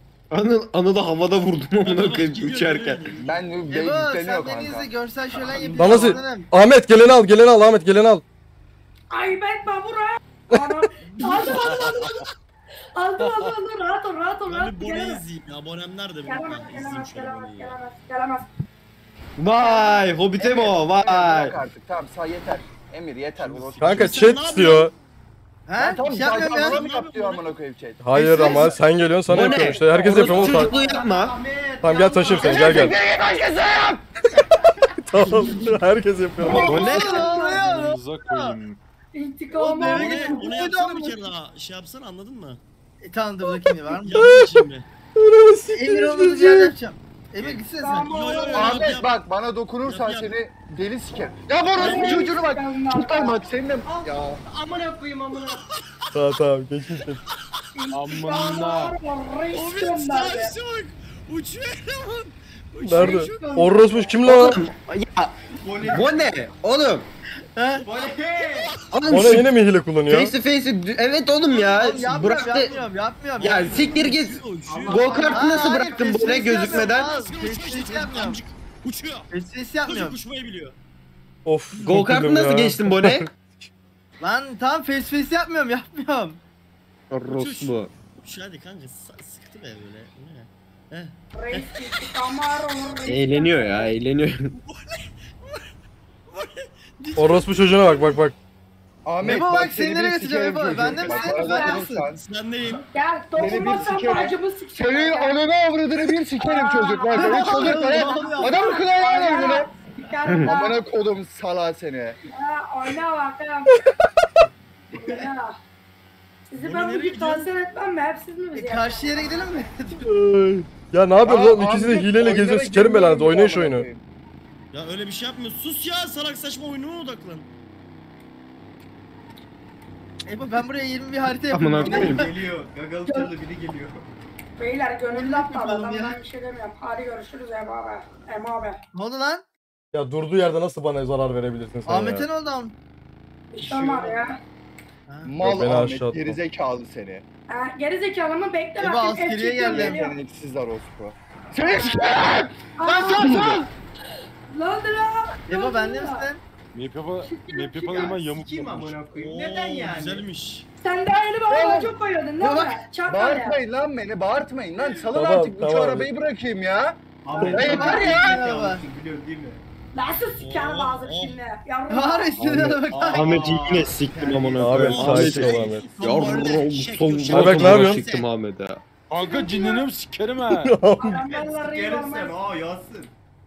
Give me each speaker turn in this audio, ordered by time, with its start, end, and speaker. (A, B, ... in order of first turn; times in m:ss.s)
0:00.3-0:03.2 A
0:01.8-0:03.5 B
0:03.2-0:04.9 C
0:03.7-0:06.5 D
0:05.3-0:06.3 E
0:05.8-0:08.2 F
0:09.1-0:12.2 G
0:10.5-0:10.8 F
0:11.3-0:12.2 H
0:13.0-0:15.2 G
0:13.2-0:13.6 H
0:14.5-0:17.8 B
0:16.3-0:18.5 G
0:19.4-0:21.6 A
0:19.4-0:20.2 G
0:20.4-0:24.6 C
0:23.4-0:23.8 H
0:23.8-0:24.9 F
0:23.8-0:24.9 B
0:25.7-0:26.8 D
0:25.8-0:28.8 C
0:26.4-0:27.5 B
0:28.0-0:30.8 F
0:29.3-0:31.4 A
0:29.3-0:29.7 H
0:29.9-0:33.0 E
0:31.8-0:33.0 F
0:32.5-0:34.0 A
0:35.0-0:37.0 F
0:36.5-0:38.6 D
0:36.6-0:38.8 H
0:36.6-0:37.3 A
0:36.8-0:37.7 G
0:39.1-0:40.5 G
0:39.6-0:41.2 D
0:39.8-0:42.6 B
0:43.0-0:44.3 D
0:43.7-0:46.7 F
0:44.0-0:44.9 B
0:45.7-0:48.3 D
0:47.4-0:49.2 B
0:47.8-0:49.0 G
0:48.5-0:54.4 C
0:49.8-0:50.3 B
0:51.7-0:53.4 G
0:51.8-0:52.4 B
0:53.8-0:55.7 E
0:56.1-0:57.2 F
0:57.8-1:00.5 G
0:57.9-0:59.0 H
0:59.5-1:03.5 B
1:02.8-1:04.6 F
1:02.9-1:04.2 E
1:04.2-1:07.1 A
1:05.5-1:06.6 E
1:07.6-1:07.9 D
1:07.8-1:08.7 E
1:08.8-1:09.5 A
1:09.1-1:10.4 F
1:10.1-1:12.7 A
1:11.5-1:14.0 D
1:12.1-1:12.9 E
1:13.4-1:15.4 B
1:13.4-1:17.1 A
1:14.6-1:15.8 E
1:15.2-1:18.4 D
1:16.2-1:19.3 B
1:19.3-1:20.2 D
1:19.8-1:20.8 B
1:21.4-1:23.3 F
1:21.8-1:23.3 A
1:24.2-1:26.4 D
1:27.1-1:27.9 A
1:27.4-1:32.2 B
1:31.4-1:33.9 G
1:33.0-1:34.6 A
1:34.6-1:35.7 B
1:36.3-1:37.9 B
1:37.2-1:38.4 F
1:37.4-1:38.0 E
1:39.0-1:42.2 C
1:39.2-1:42.1 D
1:41.0-1:41.8 G
1:41.6-1:42.9 B
1:42.9-1:45.4 G
1:43.4-1:44.2 E
1:43.4-1:49.7 C
1:46.4-1:50.8 G
1:47.2-1:48.7 D
1:50.3-1:50.6 A
1:50.4-1:52.2 C
1:52.3-1:53.8 G
1:54.9-1:55.3 E
1:54.9-1:55.6 G
1:56.5-2:00.0 G
1:56.6-1:57.5 B
1:58.5-2:00.1 D
2:00.1-2:03.9 F
2:01.2-2:04.0 C
2:04.7-2:07.5 B
2:10.3-2:12.3 D
2:11.5-2:12.3 A
2:11.8-2:14.0 E
2:14.6-2:18.8 G
2:15.1-2:16.2 D
2:18.9-2:19.5 D
2:19.9-2:22.3 F
2:21.9-2:22.8 D
2:23.5-2:24.4 G
2:23.6-2:24.1 C
2:25.1-2:25.4 D
2:25.2-2:27.2 C
2:25.4-2:26.4 F
2:27.5-2:30.2 G
2:28.8-2:30.0 D
2:29.7-2:32.5 C
2:31.6-2:32.2 G
2:32.8-2:33.7 G
2:32.9-2:33.6 D
2:34.5-2:36.3 G
2:35.5-2:36.4 D
2:36.7-2:39.0 H
2:37.2-2:38.2 G
2:37.9-2:40.2 E
2:39.1-2:40.7 B
2:40.8-2:43.6 G
2:41.5-2:41.9 C
2:42.4-2:42.8 D
2:43.1-2:47.0 C
2:45.1-2:46.1 F
2:47.2-2:49.6 E
2:47.3-2:48.2 G
2:47.4-2:48.8 D
2:47.5-2:48.4 A
2:49.9-2:52.4 G
2:50.4-2:51.4 B
2:51.9-2:53.5 D
2:52.4-2:52.7 F
2:52.4-2:58.8 A
2:52.9-2:55.8 E
2:54.6-2:55.8 F
2:54.8-2:58.3 B
2:57.3-2:58.0 F
2:59.1-3:00.7 H
2:59.2-2:59.9 G
3:00.5-3:01.3 F
3:01.0-3:02.4 G
3:01.3-3:03.2 E